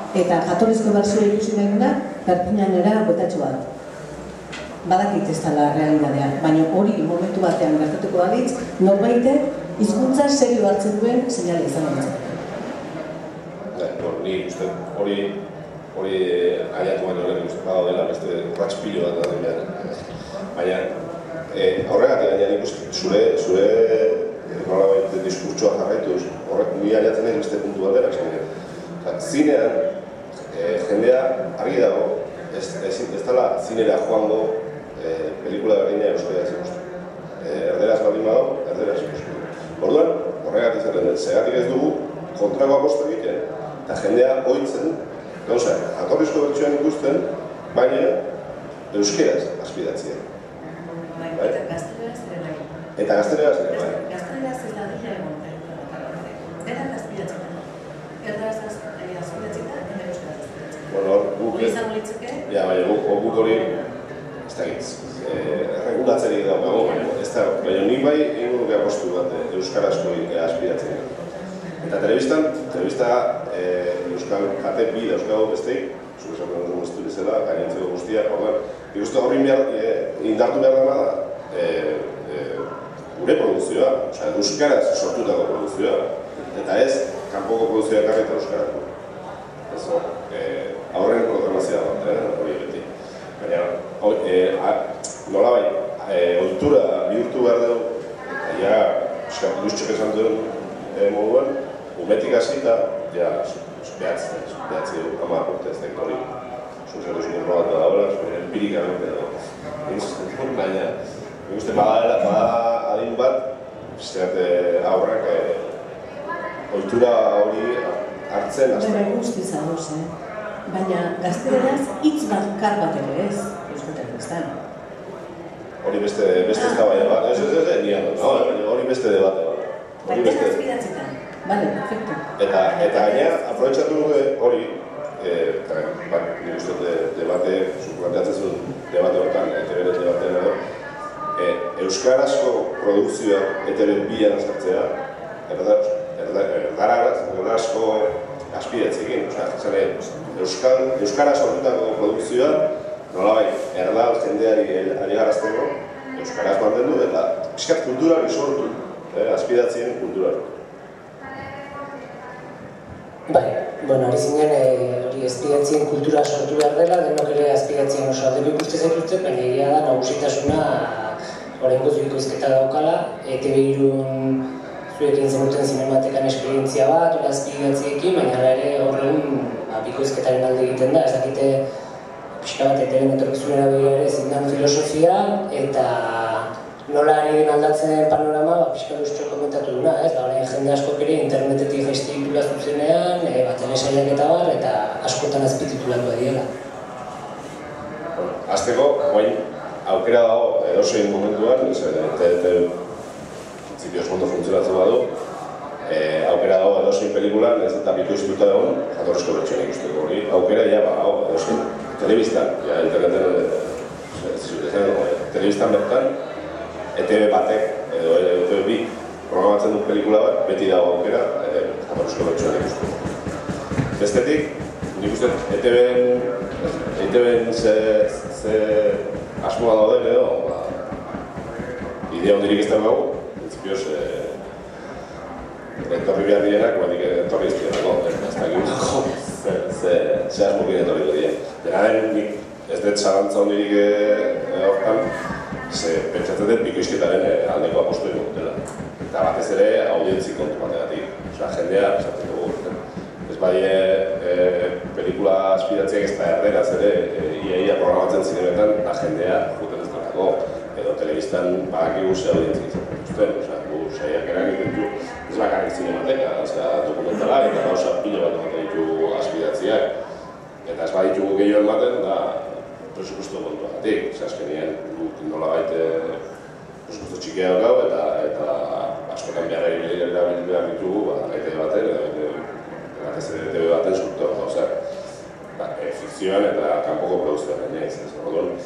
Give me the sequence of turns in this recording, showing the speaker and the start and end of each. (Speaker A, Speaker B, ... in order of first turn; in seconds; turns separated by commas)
Speaker A: 0.1-3.6, Speaker A: 4.8-12.5, Speaker B: 13.7-15.3, Speaker B: 15.9-20.0, Speaker B: 20.5-20.9, Speaker B: 21.5-28.4, Speaker B: 29.0-29.9, Speaker B: 30.5-36.8, Speaker B: 37.4-48.2, Speaker B: 48.9-50.2, Speaker A: 51.1-52.7, Speaker B: 53.0-54.0, Speaker A: 53.7-57.6, Speaker A: 58.2-60.9, Speaker B: 60.9-61.8, Speaker A: 61.5-62.4, Speaker B: 62.5-63.7, Speaker B: 64.5-71.1, Speaker B: 71.8-88.9, Speaker B: 89.7-92.9, Speaker B: 93.4-106.3, Speaker B: 106.9-115.7, Speaker B: 116.7-119.1, Speaker A: 118.7-120.1, Speaker A: 120.7-124.5, Speaker B: 125.8-130.6, Speaker A: 126.6-127.2, Speaker A: 128.2-128.5, Speaker A: 130.1-132.2, Speaker B: 132.4-140.6, Speaker A: 132.8-133.4, Speaker B: 141.4-144.9, Speaker B: 145.5-160.6, Speaker C: 163.3-174.4, Speaker C: 174.9-181.6, Speaker C: 182.4-196.5, Speaker B: 198.2-202.7, Speaker B: 203.7-205.1, Speaker B: 205.8-216.1, Speaker B: 216.9-223.2, Speaker B: 224.0-230.8, Speaker B: 232.1-234.4, Speaker B: 235.8-245.1, Speaker B: 245.7-269.9, Speaker B: 270.6-276.2, Speaker B: 276.9-284.7, Speaker B: 285.6-288.5